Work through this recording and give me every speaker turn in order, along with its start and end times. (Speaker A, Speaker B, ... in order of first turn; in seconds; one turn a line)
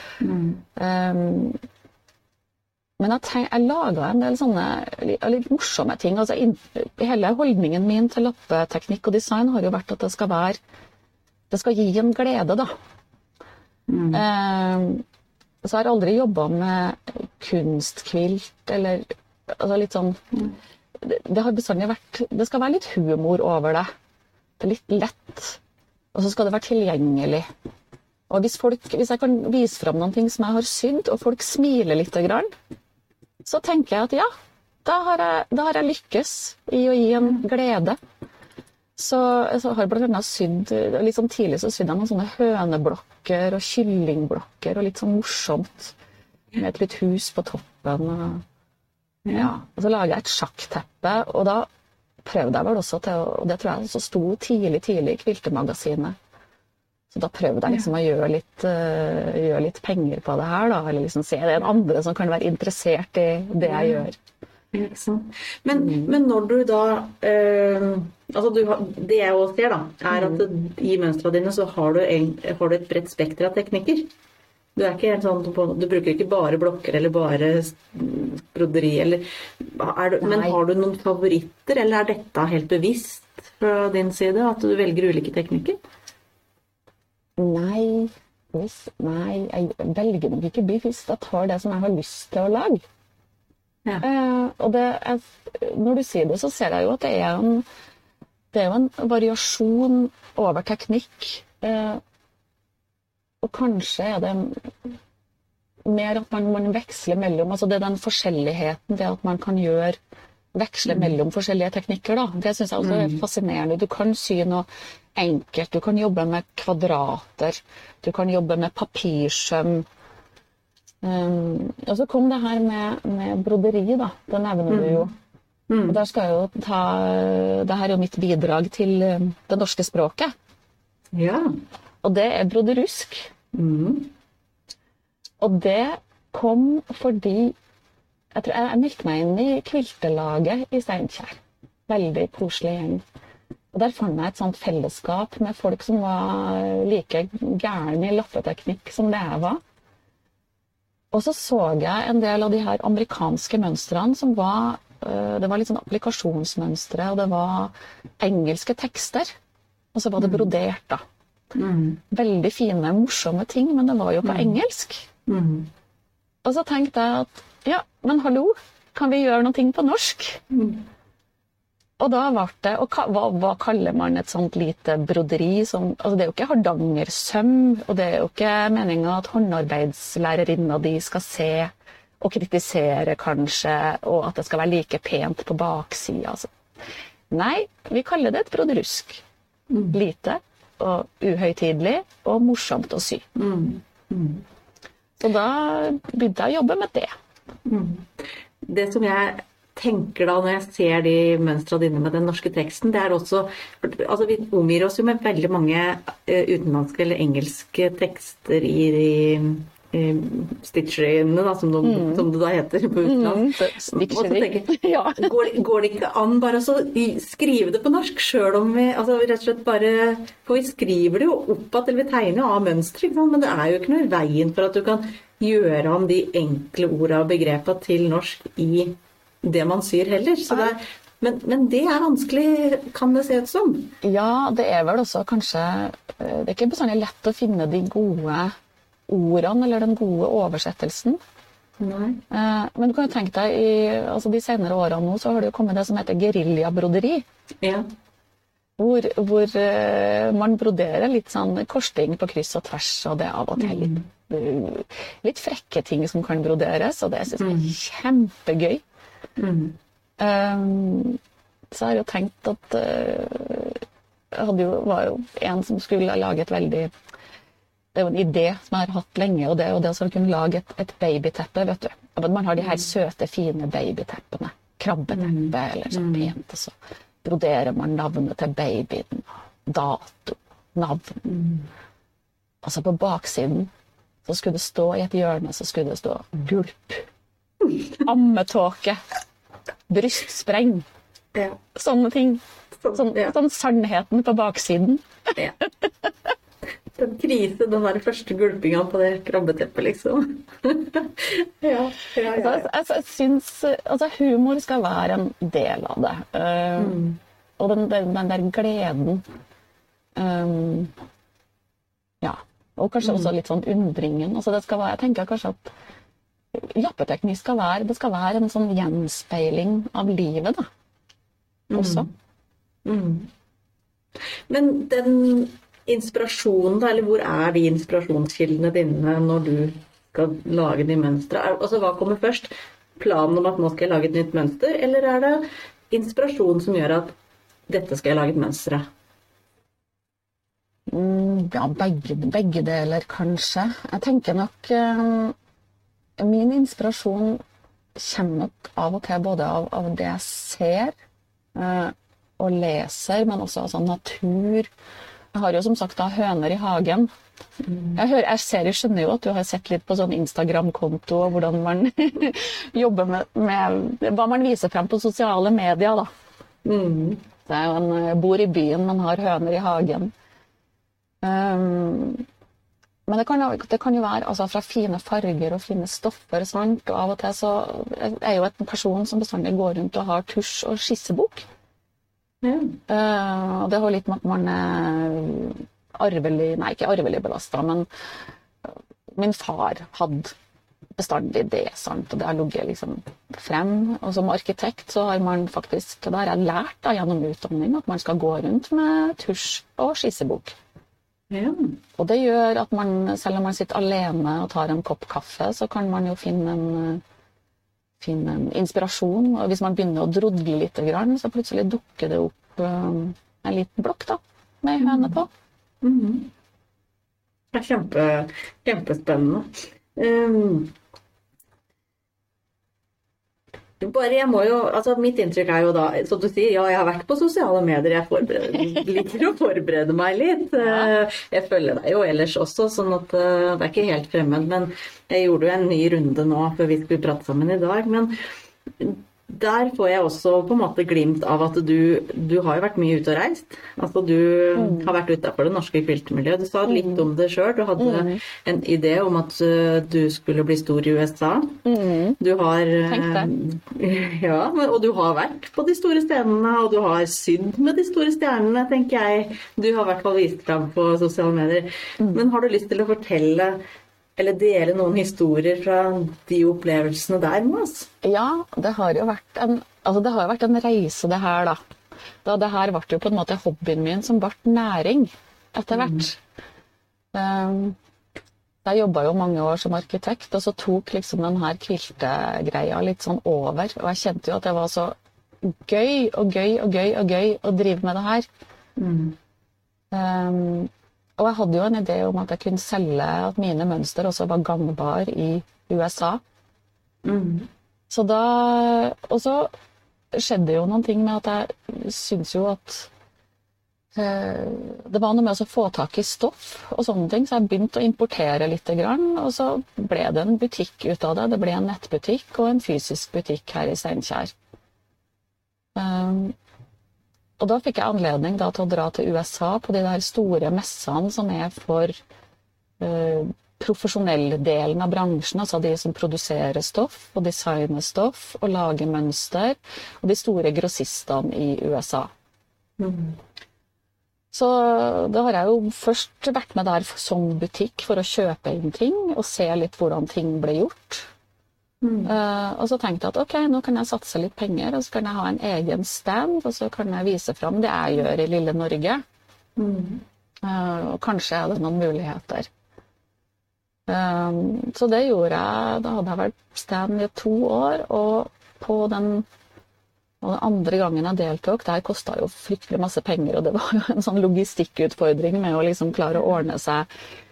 Speaker A: 0.2-0.6
Speaker B: 0.8-1.6
Speaker B: 3.0-10.6
Speaker B: 11.5-12.7
Speaker A: 13.9-14.2
Speaker B: 14.1-15.0
Speaker B: 15.6-20.2
Speaker B: 21.0-23.9
Speaker B: 24.6-25.6
Speaker B: 26.1-27.5
Speaker B: 28.3-32.5
Speaker B: 33.4-34.3
Speaker B: 34.8-38.0
Speaker B: 39.0-46.0
Speaker B: 46.6-48.4
Speaker A: 49.2-49.5
Speaker B: 49.3-51.7
Speaker B: 52.2-56.1
Speaker B: 57.1-64.2
Speaker A: 63.6-64.0
Speaker A: 64.7-74.1
Speaker B: 65.7-66.1
Speaker B: 70.1-70.5
Speaker A: 74.8-85.8
Speaker B: 80.2-80.6
Speaker B: 87.4-92.8
Speaker B: 94.0-97.6
Speaker B: 98.5-102.0
Speaker B: 103.4-104.7
Speaker B: 105.8-110.0
Speaker B: 110.5-119.9
Speaker A: 110.8-111.1
Speaker A: 112.8-113.2
Speaker B: 121.0-125.1
Speaker A: 124.7-125.1
Speaker A: 125.7-126.0
Speaker B: 125.9-130.3
Speaker A: 131.1-131.6
Speaker B: 132.0-133.3
Speaker A: 133.5-134.1
Speaker B: 135.4-137.6
Speaker B: 138.3-143.0
Speaker B: 143.7-149.6
Speaker B: 151.1-159.3
Speaker B: 159.9-161.0
Speaker A: 160.2-160.5
Speaker A: 161.5-162.0
Speaker B: 162.1-165.1
Speaker A: 164.2-164.6
Speaker A: 165.2-165.7
Speaker B: 166.4-170.4
Speaker A: 170.5-170.8
Speaker B: 172.0-186.5
Speaker B: 187.3-189.2
Speaker A: 189.7-190.0
Speaker B: 189.9-193.2
Speaker A: 193.3-194.4
Speaker B: 195.2-197.1
Speaker A: 197.7-198.1
Speaker A: 198.6-233.9
Speaker B: 211.8-212.3
Speaker B: 213.0-215.3
Speaker B: 230.5-230.7
Speaker B: 234.0-238.5
Speaker B: 239.1-241.2
Speaker A: 241.8-242.2
Speaker B: 242.3-247.2
Speaker A: 247.6-247.9
Speaker B: 248.8-258.8
Speaker A: 253.6-254.1
Speaker A: 257.4-257.8
Speaker A: 259.4-259.8
Speaker B: 260.2-261.2
Speaker B: 261.7-266.9
Speaker B: 267.9-281.2
Speaker A: 275.1-276.3
Speaker A: 281.2-281.7
Speaker B: 282.6-283.7
Speaker B: 284.2-287.1
Speaker A: 287.6-288.0
Speaker B: 288.0-289.0
Speaker B: 289.9-290.9
Speaker B: 291.7-292.4
Speaker A: 292.8-293.4
Speaker B: 292.9-295.1
Speaker B: 295.8-296.3
Speaker A: 296.9-302.7
Speaker B: 302.3-307.0
Speaker A: 306.8-307.2
Speaker B: 307.6-309.2
Speaker B: 310.1-310.9
Speaker B: 312.2-315.7
Speaker A: 313.0-313.3
Speaker B: 316.5-320.7
Speaker A: 321.7-322.1
Speaker B: 321.7-322.1
Speaker A: 322.8-323.3
Speaker A: 324.5-337.1
Speaker A: 337.7-338.9
Speaker B: 340.9-345.4
Speaker B: 346.2-347.4
Speaker B: 347.9-350.9
Speaker B: 351.5-354.7
Speaker B: 355.3-357.1
Speaker A: 357.6-358.0
Speaker B: 357.9-366.1
Speaker A: 366.6-367.2
Speaker B: 367.5-370.1
Speaker B: 371.2-372.2
Speaker B: 373.1-381.4
Speaker A: 382.4-382.8
Speaker B: 382.9-387.9
Speaker B: 388.6-390.3
Speaker B: 391.0-400.5
Speaker A: 401.3-401.8
Speaker B: 402.0-407.0
Speaker B: 408.0-415.3
Speaker A: 414.8-415.2
Speaker A: 415.8-416.3
Speaker A: 417.5-420.7
Speaker A: 423.8-438.1
Speaker B: 430.6-430.9
Speaker A: 438.8-451.6
Speaker B: 444.6-444.9
Speaker B: 446.7-447.1
Speaker B: 447.8-448.2
Speaker B: 451.6-452.2
Speaker A: 452.2-463.6
Speaker B: 452.9-453.3
Speaker A: 464.2-467.9
Speaker B: 468.0-471.6
Speaker B: 472.2-476.2
Speaker A: 475.7-476.1
Speaker B: 477.1-477.8
Speaker B: 478.6-488.3
Speaker A: 488.8-489.2
Speaker B: 489.9-496.2
Speaker A: 497.0-497.5
Speaker B: 497.9-499.5
Speaker B: 500.1-502.9
Speaker B: 503.9-514.3
Speaker B: 515.7-516.4
Speaker B: 517.4-521.9
Speaker B: 522.8-532.1
Speaker A: 532.8-533.2
Speaker B: 534.3-541.1
Speaker A: 541.8-542.1
Speaker B: 542.0-549.0
Speaker A: 549.6-550.0
Speaker B: 550.4-552.5
Speaker B: 553.9-559.3
Speaker B: 560.2-566.9